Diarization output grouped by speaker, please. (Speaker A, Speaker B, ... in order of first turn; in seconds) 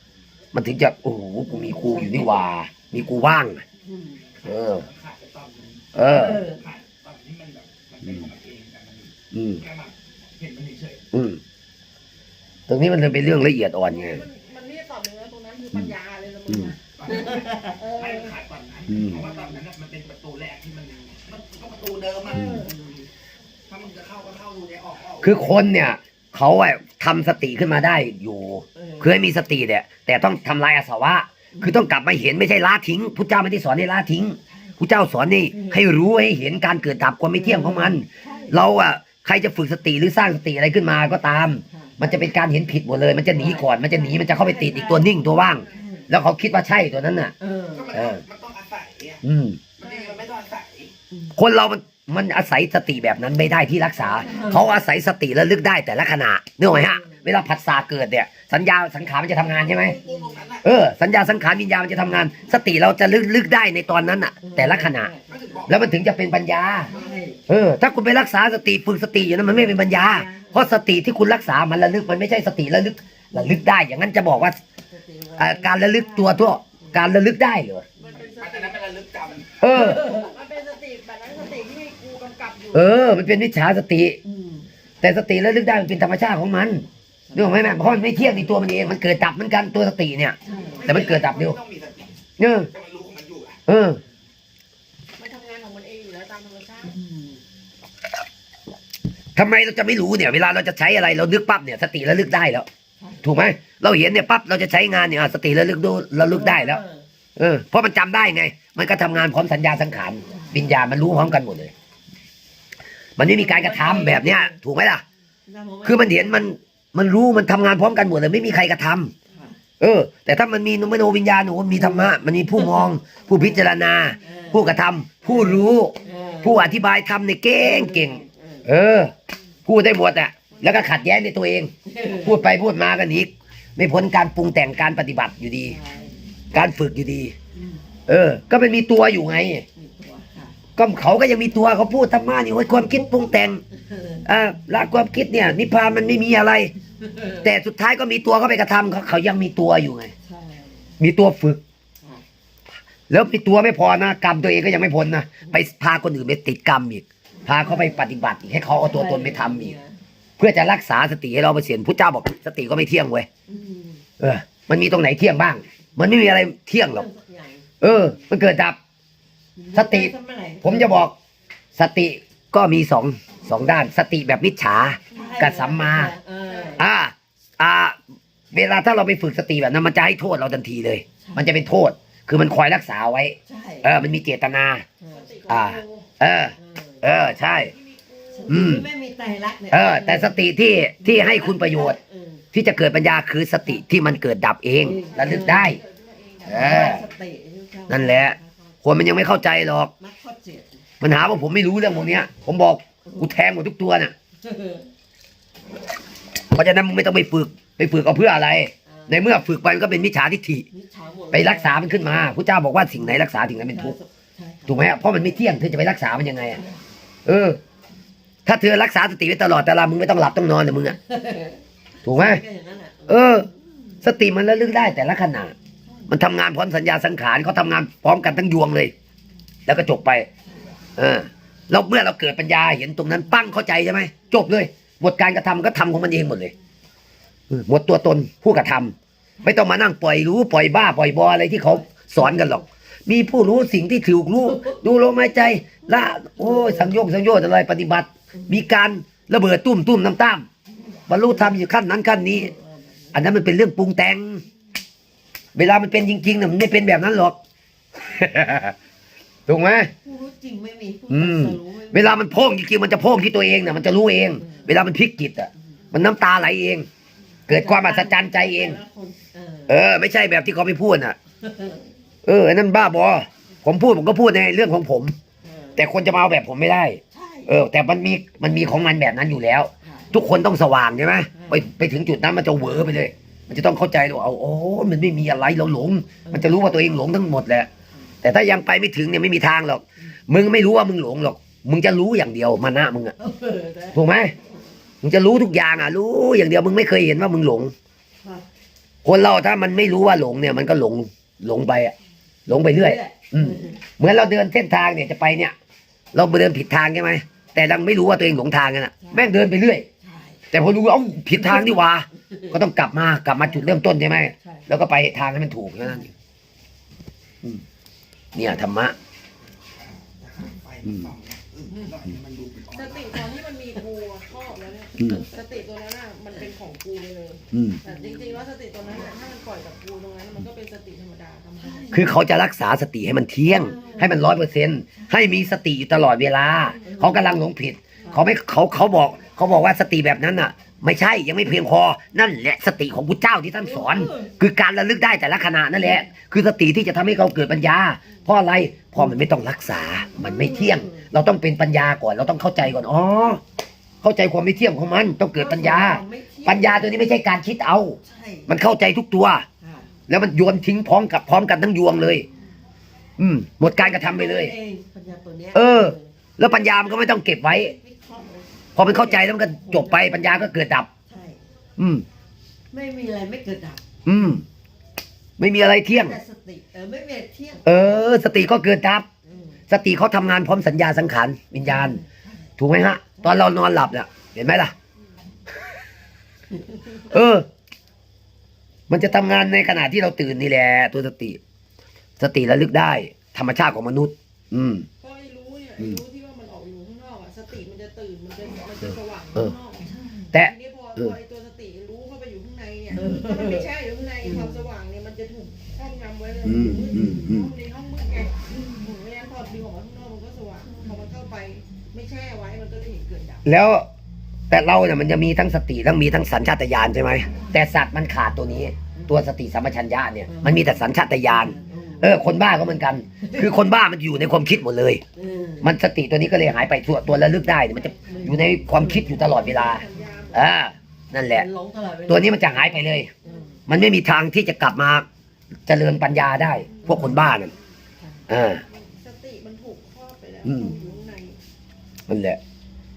Speaker A: 0.5-3.6, 4.4-4.9, 5.9-6.4, 9.3-9.6, 11.1-11.4, 12.7-14.2, 18.9-19.2, 25.2-47.3, 47.9-48.2, 49.2-49.6, 51.4-60.0, 60.6-65.1, 65.7-66.9, 67.5-74.6, 75.4-77.8, 79.6-80.0, 82.7-84.2, 85.0-91.6, 92.4-92.7, 93.7-94.0, 99.4-102.7, 103.2-106.8, 107.4-111.7, 113.2-115.0, 115.8-119.1, 119.8-129.1, 129.7-135.8, 136.5-137.3, 138.1-139.7, 140.8-143.6, 144.2-146.7, 147.4-150.1, 151.0-151.6, 153.1-159.8, 160.4-163.3, 164.2-167.1, 167.8-168.8, 169.7-171.1, 171.8-176.1, 176.8-178.0, 178.5-184.9, 185.5-187.7, 188.5-188.9, 189.7-192.0, 192.5-195.8, 196.5-197.0, 197.9-199.9, 201.0-204.1, 206.5-210.7, 211.3-214.0, 214.7-216.6, 217.3-217.6, 218.5-221.0, 222.0-222.4, 223.1-223.5, 224.0-225.5, 226.1-228.9, 229.7-230.3, 231.0-236.5, 237.5-250.5, 251.1-252.5, 253.1-254.4, 255.6-257.4, 258.0-258.8, 259.5-259.9, 261.1-266.9, 267.5-268.8, 269.7-271.2, 272.2-275.1, 275.8-287.7, 288.2-293.1, 293.9-294.3, 295.0-297.7, 299.0-301.9, 302.5-305.6, 306.1-309.9, 310.5-316.1, 318.4-318.9, 320.9-321.1, 325.0-325.2, 327.5-327.8, 331.9-353.4, 354.0-359.5, 360.1-362.2, 363.2-364.5, 365.5-367.8, 368.8-370.9, 371.8-372.1, 374.1-374.4, 375.4-376.2, 377.6-379.1, 379.7-382.0, 382.6-384.7, 387.0-387.5, 388.9-391.4, 392.2-394.9, 400.3-401.1, 406.4-407.5, 413.4-413.9, 414.5-425.0, 425.6-431.5, 432.1-433.1, 433.7-435.1, 435.7-437.5, 438.3-438.6, 440.4-440.7, 442.1-442.4
Speaker B: 1.5-2.5, 3.8-4.3, 6.1-6.7, 17.1-17.8, 22.3-23.1, 28.8-29.1, 31.6-31.9, 34.5-34.8, 35.5-35.9, 37.3-38.6, 41.7-42.1, 43.3-45.1, 45.7-46.1, 47.4-48.0, 54.0-54.8, 56.7-57.2, 59.6-60.6, 64.4-65.7, 66.9-67.4, 69.8-70.9, 73.3-73.6, 74.9-77.1, 78.0-78.3, 79.7-80.3, 84.2-84.7, 87.3-88.6, 90.5-91.2, 96.9-97.4, 103.0-103.3, 106.3-107.0, 113.2-114.6, 115.5-116.5, 121.7-123.0, 124.2-126.9, 127.5-128.7, 131.9-132.5, 135.7-136.2, 137.6-137.8, 139.8-140.6, 143.7-144.3, 147.0-147.5, 150.2-150.9, 157.6-158.1, 158.6-160.0, 163.5-164.0, 166.8-168.3, 169.6-171.1, 175.1-176.9, 181.2-181.6, 183.5-183.9, 185.0-185.3, 186.6-187.2, 188.3-190.5, 191.0-192.5, 194.8-195.8, 196.6-198.8, 200.0-200.8, 203.1-203.4, 204.4-204.9, 208.9-209.3, 210.7-211.9, 213.2-215.4, 221.1-223.9, 225.9-226.1, 241.7-242.7, 244.4-244.8, 245.9-247.0, 251.1-251.6, 252.1-253.4, 260.0-262.3, 264.4-264.8, 267.5-269.8, 271.4-271.9, 275.4-275.9, 277.1-277.6, 279.8-280.1, 281.3-281.7, 286.3-286.6, 293.2-294.1, 298.2-298.5, 302.7-303.8, 309.0-309.3, 310.0-310.4, 311.4-312.6, 313.4-313.8, 314.4-314.7, 327.8-328.4, 331.6-332.1, 333.5-334.4, 334.9-335.5, 336.8-337.4, 343.6-344.4, 350.2-351.1, 355.4-357.0, 358.0-358.5, 359.6-359.9, 363.6-370.5, 371.1-371.4, 372.7-373.8, 375.9-378.0, 379.3-379.6, 381.6-382.5, 386.5-387.1, 399.9-400.3, 402.9-403.7, 404.2-404.6, 406.5-407.5, 410.6-411.1, 419.0-419.2, 420.3-422.2, 423.2-423.6, 425.2-425.8, 428.0-429.6, 431.3-433.6, 436.8-437.3
Speaker C: 4.8-5.9, 6.6-9.1, 9.7-11.0, 17.1-17.5, 18.1-22.4, 23.7-25.2, 47.8-49.2, 49.8-50.9, 65.4-65.7, 78.6-79.5, 90.8-92.1, 92.8-93.6, 320.7-322.9
Speaker D: 13.8-16.9, 17.8-18.4, 22.2-22.7, 43.7-45.9, 49.8-50.2, 78.0-79.2, 79.9-83.0, 95.2-97.0, 130.5-130.9, 175.1-175.9, 176.5-176.9, 185.1-186.1, 187.4-188.7, 195.0-197.1, 322.7-332.0, 395.0-413.5, 427.7-428.2, 429.1-430.5, 436.7-437.5, 438.7-441.4